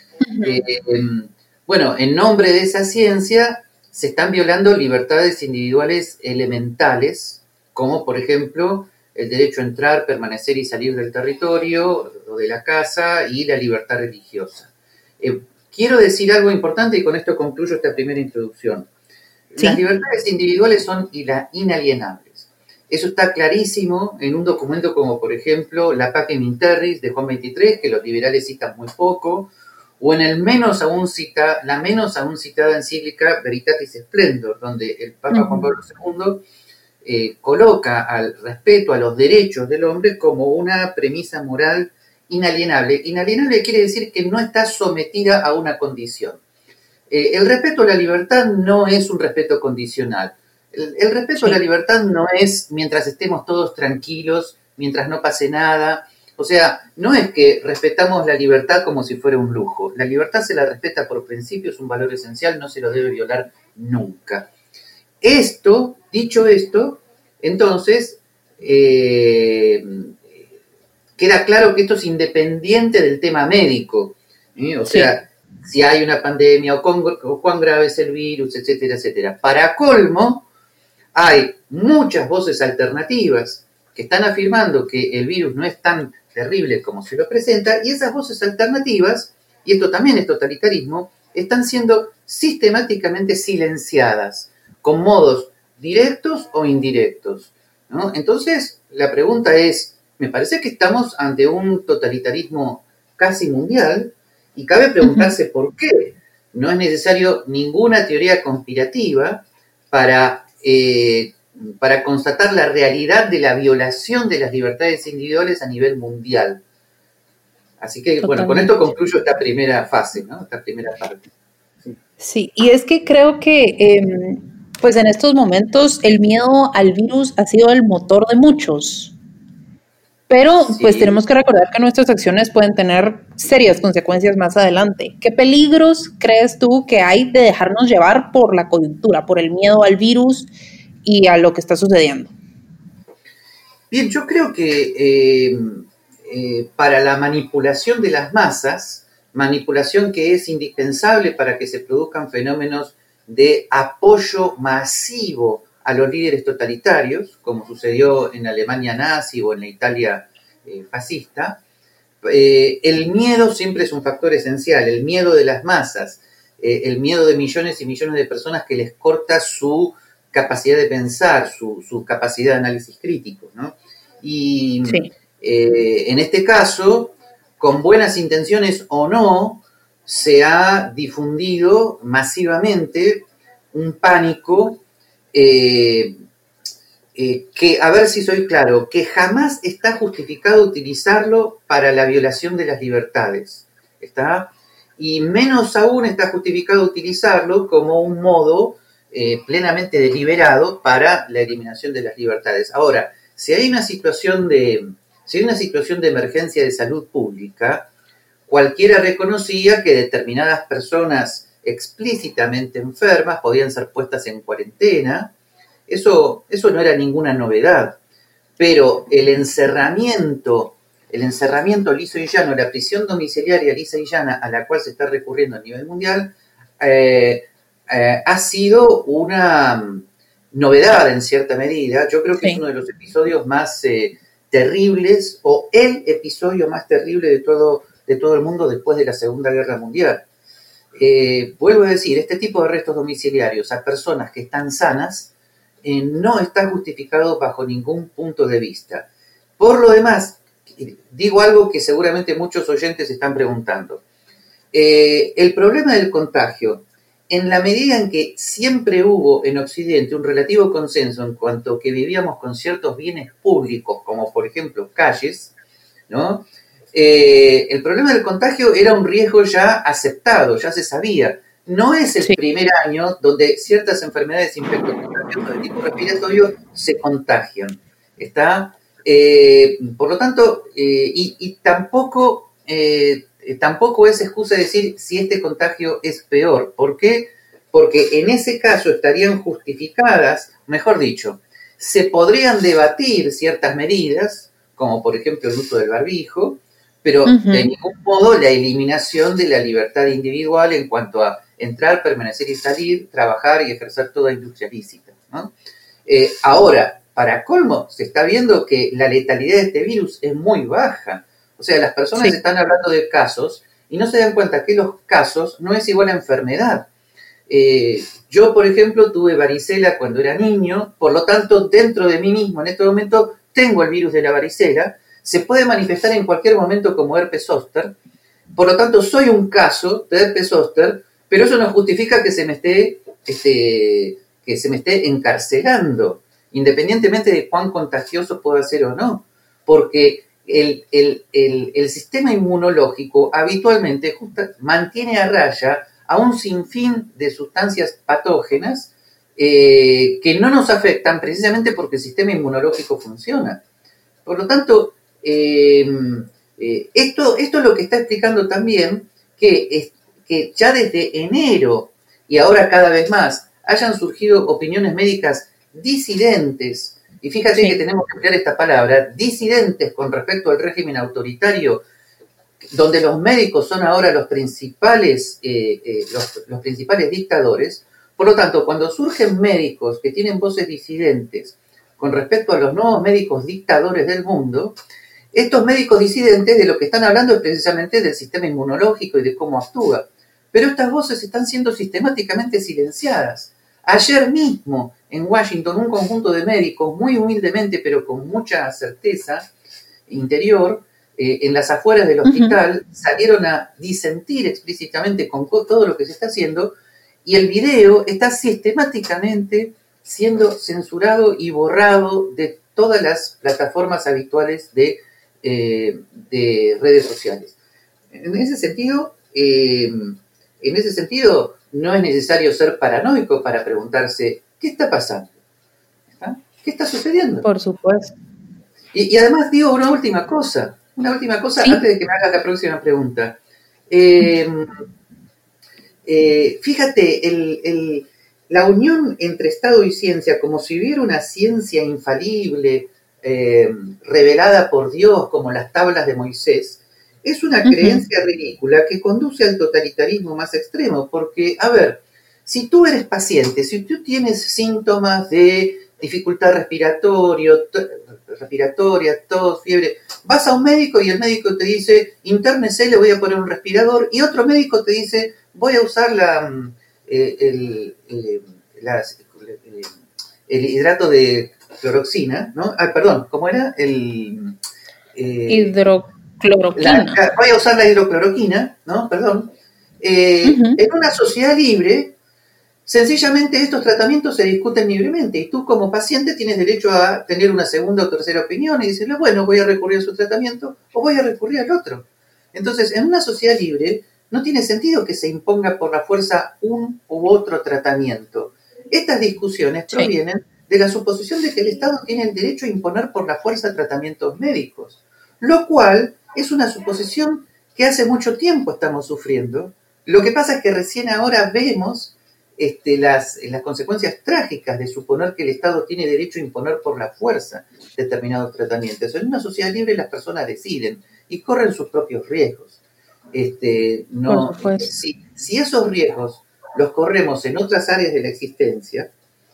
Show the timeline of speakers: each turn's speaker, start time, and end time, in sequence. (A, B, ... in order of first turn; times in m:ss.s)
0:00.2-0:00.6 A
0:00.4-0:18.9 B
0:19.5-0:36.4 B
0:35.3-0:35.7 A
0:37.0-0:46.4 B
0:47.1-1:04.5 B
1:05.2-1:10.4 B
1:11.2-1:20.5 B
1:14.9-1:15.1 A
1:21.1-1:56.6 B
1:45.0-1:45.3 A
1:57.8-2:01.3 B
1:58.2-1:58.9 A
2:02.2-2:09.2 A
2:10.3-2:20.5 A
2:10.6-2:11.2 B
2:21.0-2:22.4 A
2:23.9-2:41.6 B
2:42.2-3:06.2 B
3:07.2-3:27.9 B
3:28.5-3:35.3 B
3:35.9-3:38.0 B
3:38.6-4:00.2 B
4:01.0-4:05.3 B
4:05.8-4:14.0 B
4:14.7-4:25.5 B
4:26.1-5:05.5 B
4:57.3-4:57.7 A
5:06.1-5:16.9 B
5:17.5-5:28.0 B
5:28.6-5:53.6 B
5:54.3-6:11.8 B
6:12.7-6:24.8 B
6:25.3-6:39.5 B
6:40.1-6:57.6 B
6:42.2-6:42.6 A
6:58.1-7:05.3 B
7:06.1-7:07.4 B
7:07.4-7:08.1 A
7:08.9-7:14.7 B
7:16.0-7:49.9 B
7:27.6-7:28.0 A
7:50.5-7:54.6 B
7:55.1-7:55.8 B
7:55.5-7:57.2 A
7:56.8-8:02.2 B
8:00.4-8:00.8 A
8:02.9-8:42.8 B
8:43.3-8:49.1 B
8:44.3-8:44.9 A